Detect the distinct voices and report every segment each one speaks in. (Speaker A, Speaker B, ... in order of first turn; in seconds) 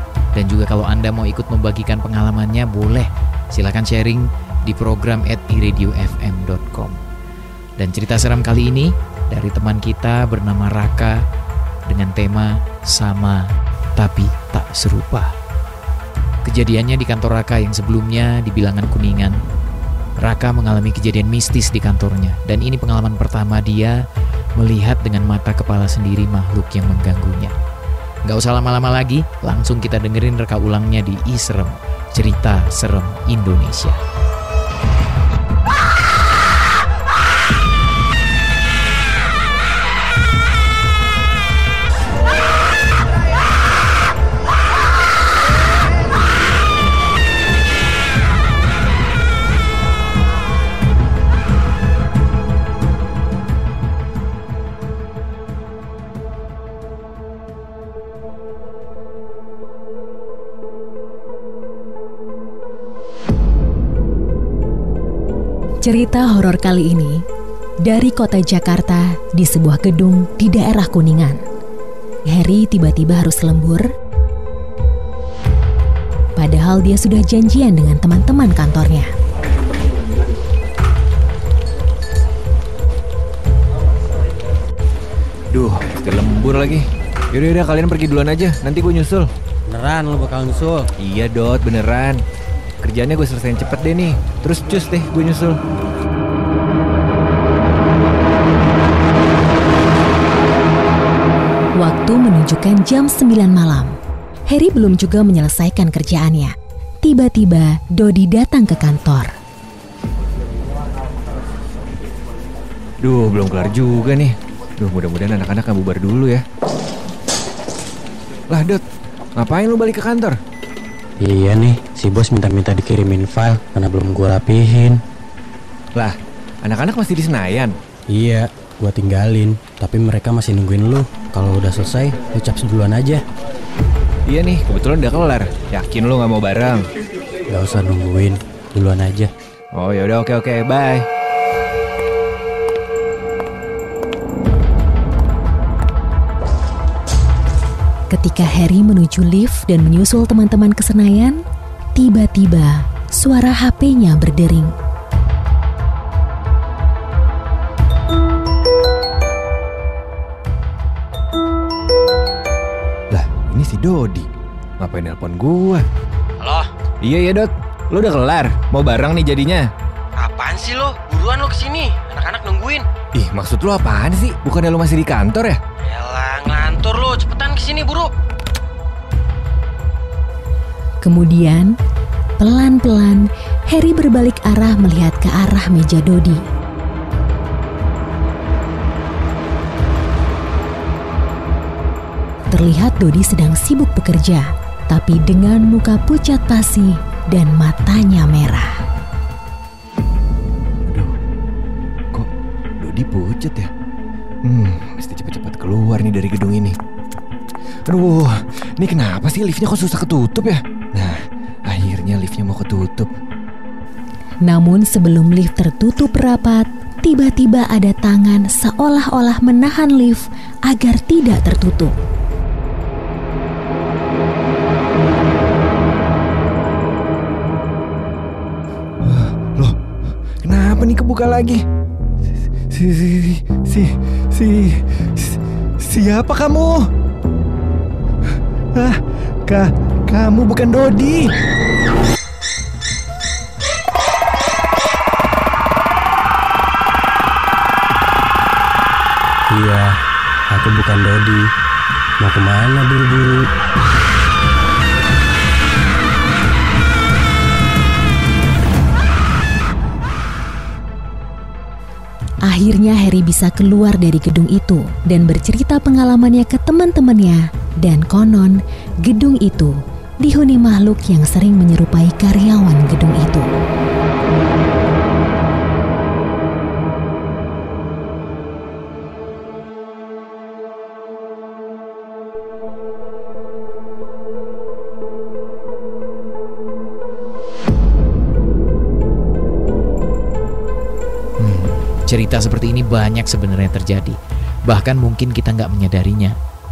Speaker A: 0.3-7.0, 7.8-11.2, 11.9-15.3, 16.4-19.4, 20.2-24.0, 24.6-27.6, 28.3-34.0, 291.4-296.4
Speaker B: 65.8-67.2, 67.8-71.4, 72.3-73.9, 76.4-79.1, 101.8-104.0, 104.5-109.3, 148.1-151.4, 151.9-154.7, 181.0-181.8, 182.4-186.4, 192.5-198.8, 214.4-222.0, 262.4-273.5
Speaker C: 85.5-89.3, 91.0-92.2, 92.8-95.6, 113.0-116.4, 118.5-118.8, 119.4-120.4, 126.0-127.8, 134.3-136.9, 139.7-141.1, 163.1-165.9, 167.0-169.7, 173.1-175.6, 200.9-201.2, 202.1-203.7, 204.4-206.8, 207.9-213.1, 229.0-229.8, 230.4-231.6, 232.7-236.9, 238.7-241.3
Speaker D: 89.7-90.9, 121.2-125.0, 128.1-133.2, 137.5-139.3, 249.5-250.0, 250.5-251.5, 252.2-253.5
Speaker E: 166.4-166.7, 170.2-172.8, 175.8-178.1